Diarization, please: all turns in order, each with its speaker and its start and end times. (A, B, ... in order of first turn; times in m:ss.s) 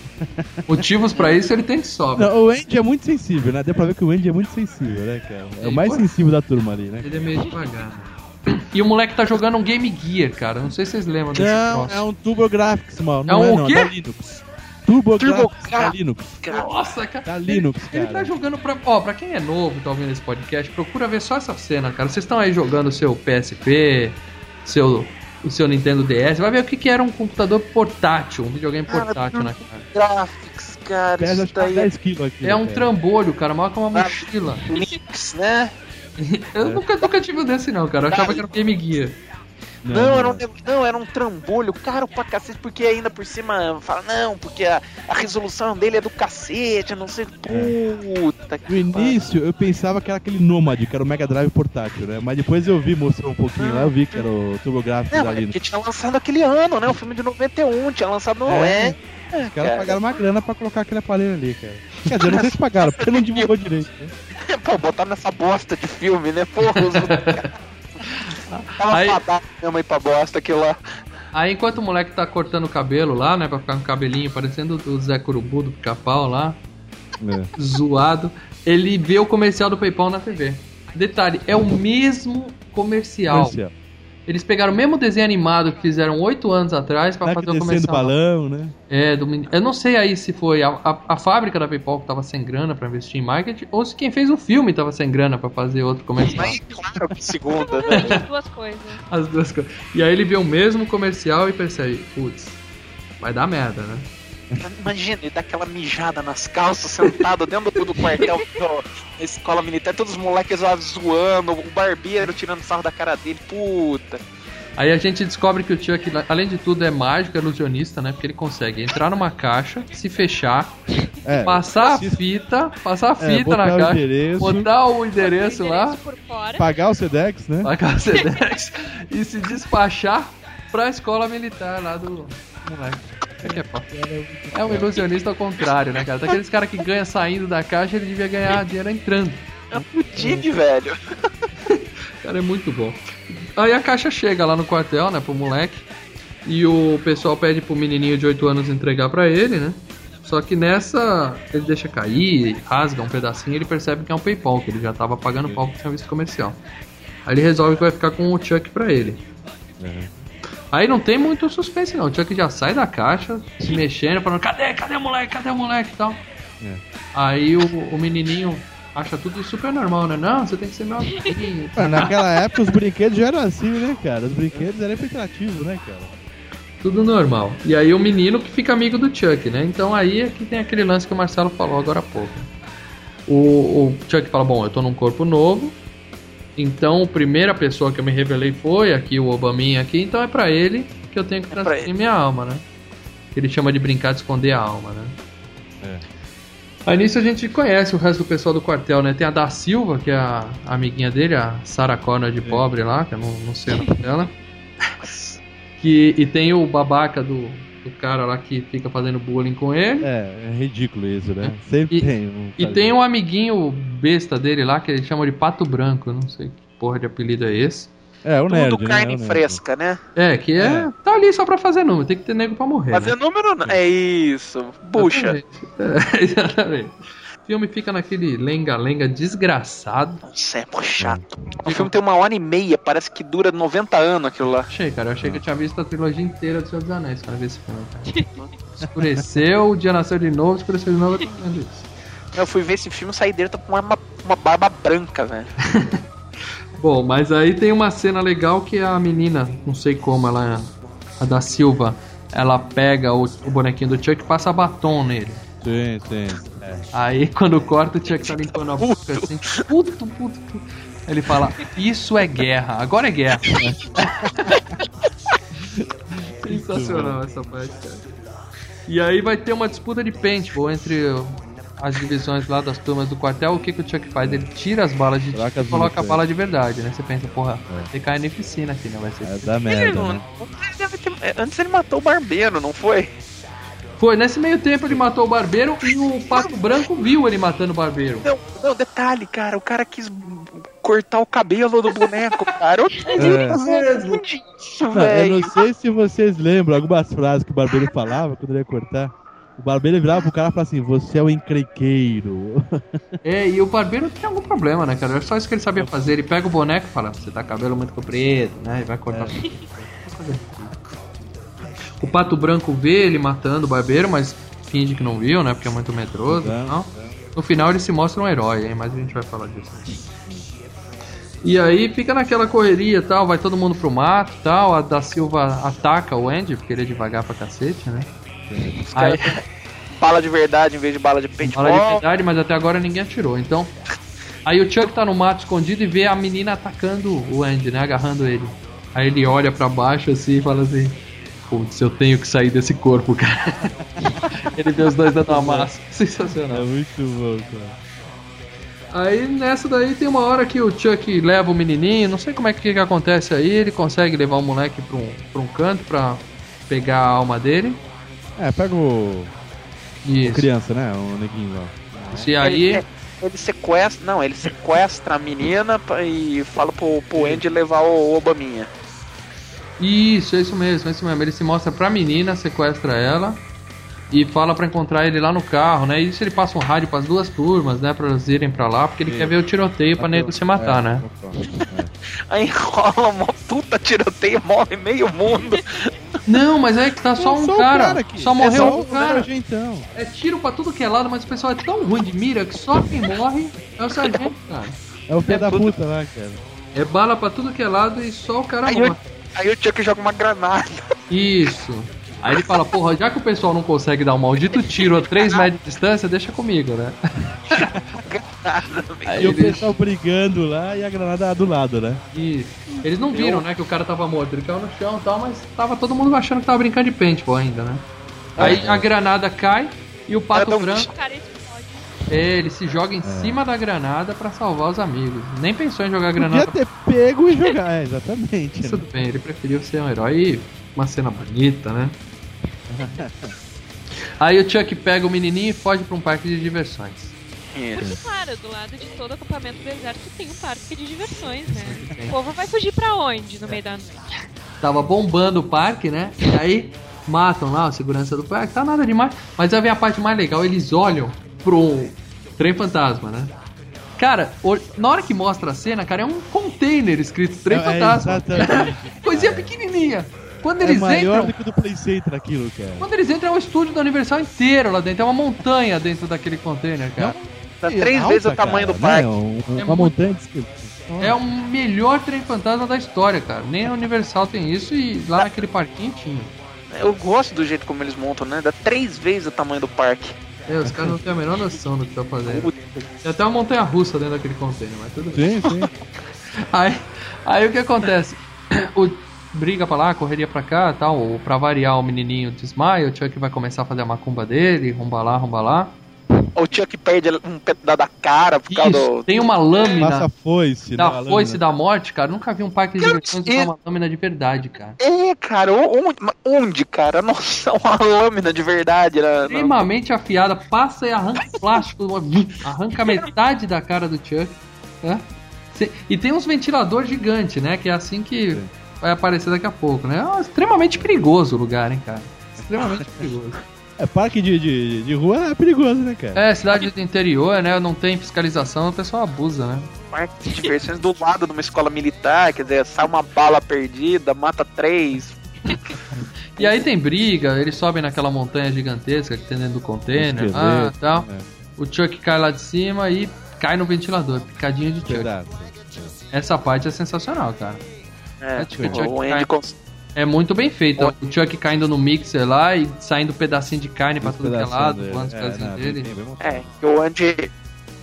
0:00.2-0:00.8 A
0:00.7-0:02.4 B
0:02.2-0:07.3 A
0:05.6-0:06.1 B
0:07.0-0:12.0 B
0:11.3-0:16.4 A
0:13.3-0:13.9 B
0:15.2-0:16.7 C
0:16.5-0:29.9 B
0:17.2-0:18.3 A
0:28.9-0:31.9 C
0:31.2-0:32.9 A
0:32.4-0:34.7 B
0:34.0-0:35.7 C
0:36.2-0:39.2 B
0:38.1-0:38.5 C
0:39.8-0:40.4 A
0:39.9-0:49.2 C
0:47.5-0:47.8 A
0:48.7-0:55.6 A
0:53.6-0:54.3 C
0:55.1-1:00.2 C
0:58.5-1:04.1 A
1:02.2-1:03.6 C
1:04.4-1:07.5 C
1:06.6-1:07.4 B
1:08.1-1:09.2 B
1:08.8-1:10.8 C
1:11.3-1:16.6 B
1:17.2-1:17.5 A
1:17.6-1:23.6 B
1:23.3-1:23.7 A
1:24.3-1:28.1 B
1:27.2-1:28.7 A
1:28.9-1:36.6 B
1:36.3-1:38.1 C
1:37.6-1:39.0 D
1:38.0-1:38.2 B
1:39.1-1:42.6 B
1:43.2-1:44.1 B
1:44.6-1:54.2 C
1:54.8-2:00.8 B
2:01.2-2:02.2 A
2:01.4-2:06.0 B
2:03.2-2:04.7 A
2:05.2-2:06.7 D
2:06.6-2:07.7 A
2:07.6-2:13.9 B
2:08.2-2:08.5 D
2:12.7-2:15.0 A
2:14.5-2:19.5 B
2:19.7-2:21.0 C
2:20.2-2:20.5 A
2:21.7-2:25.9 B
2:26.5-2:36.6 B
2:37.3-2:39.2 B
2:39.8-2:40.1 A
2:40.7-2:46.2 B
2:47.1-2:52.2 B
2:51.8-2:56.1 A
2:56.8-3:02.5 B
3:03.3-3:05.8 B
3:06.6-3:12.6 B
3:11.5-3:11.9 C
3:13.3-3:15.2 B
3:16.9-3:24.3 B
3:25.0-3:25.4 C
3:25.8-3:30.1 B
3:30.0-3:33.0 A
3:31.4-3:37.9 B
3:38.2-3:39.6 A
3:38.5-3:40.0 C
3:40.2-3:43.1 B
3:40.6-3:40.9 A
3:42.9-3:45.4 C
3:45.0-3:50.2 B
3:50.2-3:54.7 C
3:51.6-3:52.0 B
3:54.7-3:58.2 B
3:58.9-4:01.9 B
4:02.3-4:05.5 C
4:05.6-4:06.0 B
4:06.8-4:15.4 B
4:15.6-4:16.8 A
4:16.9-4:23.6 B
4:18.2-4:19.4 C
4:23.6-4:24.5 A
4:24.2-4:24.6 B
4:26.4-4:27.2 A
4:26.5-4:28.0 B
4:28.9-4:40.0 B
4:35.3-4:36.2 A
4:39.2-4:40.2 A
4:39.7-4:43.1 C
4:44.0-4:48.3 B
4:48.3-4:55.5 C
4:53.1-4:54.2 B
4:53.2-4:53.6 A
4:54.9-5:03.1 A
5:03.2-5:10.8 B
5:12.0-5:20.0 B
5:16.3-5:17.1 A
5:21.4-5:28.1 B
5:28.5-5:28.8 A
5:28.9-5:29.4 C
5:28.9-5:29.4 B
5:30.0-5:32.0 C
5:31.4-5:33.7 B
5:34.5-5:43.7 B
5:43.8-5:44.2 A
5:44.4-5:46.7 B
5:45.2-5:45.7 A
5:46.5-5:47.8 A
5:48.9-5:57.8 B
5:58.4-5:59.3 A
6:00.0-6:00.5 B
6:00.2-6:02.3 A
6:02.1-6:02.8 B
6:02.4-6:08.7 C
6:07.2-6:07.4 A
6:09.8-6:13.4 B
6:14.1-6:21.1 B
6:19.1-6:19.4 A
6:20.0-6:21.9 A
6:22.3-6:25.9 C
6:26.3-6:29.3 B
6:27.2-6:29.8 A
6:28.4-6:29.2 C
6:30.0-6:34.8 B
6:35.1-6:36.4 A
6:35.3-6:35.6 B
6:35.3-6:35.7 C
6:36.8-6:39.0 B
6:38.7-6:40.9 C
6:41.1-6:47.8 B
6:44.4-6:45.5 C
6:47.5-6:49.4 C
6:49.0-6:49.7 B
6:49.2-6:52.0 A
6:52.1-6:57.8 B
6:53.1-6:53.4 C
6:58.4-6:58.6 C
6:58.4-6:58.9 A
6:58.4-7:00.9 B
7:00.3-7:00.9 C
7:00.9-7:02.1 D
7:02.1-7:06.6 B
7:03.0-7:03.4 A
7:06.2-7:08.8 A
7:08.6-7:12.0 B
7:12.7-7:13.3 A
7:14.2-7:17.1 B
7:17.6-7:17.9 C
7:17.7-7:24.0 D
7:21.5-7:22.2 B
7:24.6-7:33.3 B
7:34.0-7:41.4 B
7:37.5-7:39.5 A
7:40.6-7:42.8 A
7:42.8-7:47.2 B
7:47.0-7:51.2 A
7:47.6-7:49.1 C
7:49.6-7:50.0 B
7:51.0-7:56.3 B
7:56.7-8:00.2 C
8:00.5-8:02.5 B
8:02.3-8:02.9 C
8:03.0-8:05.3 B
8:05.1-8:05.7 A
8:06.4-8:15.8 B
8:16.4-8:19.8 C
8:18.5-8:20.1 B
8:19.8-8:21.4 A
8:20.8-8:24.8 B
8:22.8-8:23.5 C
8:24.8-8:29.6 C
8:29.3-8:35.0 B
8:35.6-8:43.4 B
8:42.4-8:42.9 A
8:43.8-8:46.2 A
8:46.2-8:49.7 B
8:49.9-8:55.2 C
8:56.4-9:01.1 B
9:00.0-9:01.3 A
9:01.6-9:05.1 B
9:04.9-9:06.0 A
9:06.1-9:07.6 B
9:08.2-9:09.6 C
9:08.4-9:09.3 B
9:08.5-9:08.9 A
9:10.0-9:15.9 B
9:14.0-9:16.5 A
9:16.2-9:17.3 C